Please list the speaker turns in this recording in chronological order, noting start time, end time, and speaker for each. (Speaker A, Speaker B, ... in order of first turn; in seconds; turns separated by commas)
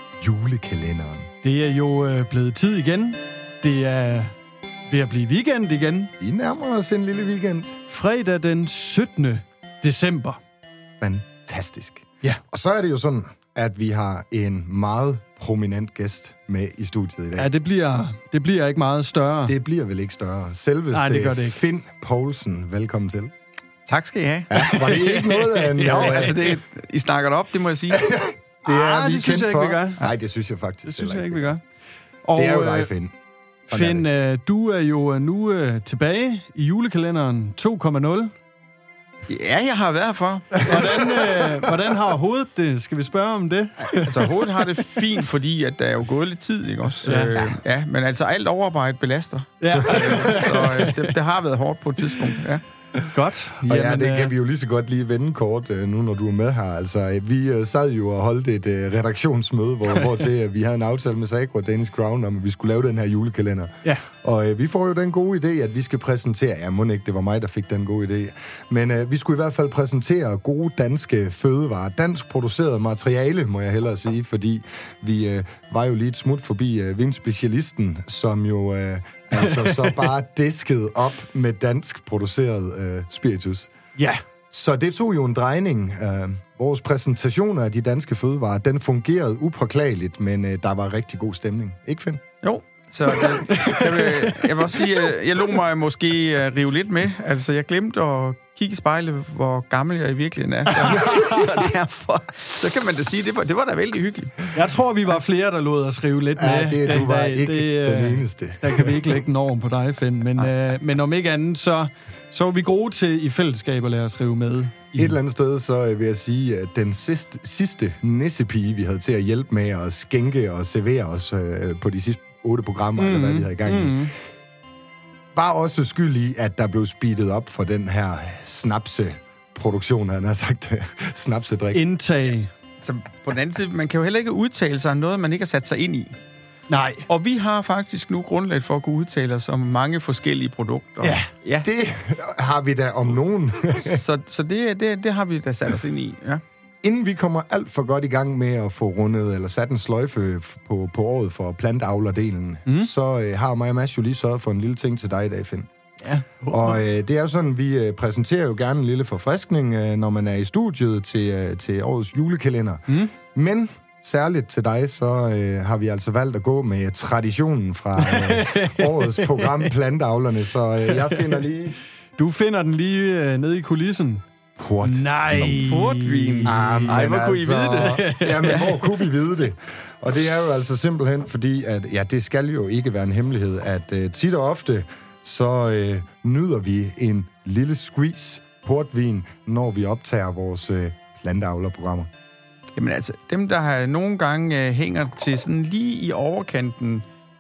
Speaker A: 0.2-1.3, Speaker B: 1.4-4.3, Speaker B: 4.9-6.1, Speaker A: 6.2-7.8, Speaker B: 7.9-10.4, Speaker A: 11.0-17.5, Speaker B: 17.4-19.6, Speaker A: 19.4-23.3, Speaker B: 20.9-21.6, Speaker C: 23.9-28.0, Speaker A: 24.5-26.4, Speaker B: 25.8-26.4, Speaker A: 27.9-31.5, Speaker B: 28.6-30.1, Speaker B: 30.9-31.6, Speaker B: 32.2-32.9, Speaker A: 32.3-33.1, Speaker A: 33.7-34.1, Speaker B: 33.7-38.3, Speaker C: 39.3-40.8, Speaker B: 40.6-44.3, Speaker C: 43.8-52.6, Speaker B: 47.0-47.5, Speaker B: 49.6-51.1, Speaker A: 49.8-50.4, Speaker B: 53.1-54.3, Speaker A: 53.6-83.7, Speaker B: 79.5-80.0, Speaker B: 84.0-84.2, Speaker A: 84.5-92.2, Speaker C: 92.4-104.5, Speaker B: 93.3-94.3, Speaker B: 100.8-101.2, Speaker B: 104.5-115.2, Speaker A: 106.4-109.0, Speaker A: 114.9-124.1, Speaker B: 123.0-124.1, Speaker A: 125.3-131.8, Speaker B: 131.7-132.5, Speaker C: 132.8-136.2, Speaker B: 136.7-137.1, Speaker C: 137.1-141.7, Speaker B: 141.0-141.3, Speaker A: 141.6-144.0, Speaker C: 143.8-146.4, Speaker A: 146.8-155.7, Speaker C: 156.4-156.8, Speaker A: 156.5-171.8, Speaker B: 168.0-169.7, Speaker B: 170.9-171.4, Speaker B: 172.2-174.2, Speaker A: 174.6-175.7, Speaker B: 174.8-177.1, Speaker C: 175.6-178.7, Speaker A: 176.4-192.1, Speaker B: 177.7-178.8, Speaker C: 192.8-197.1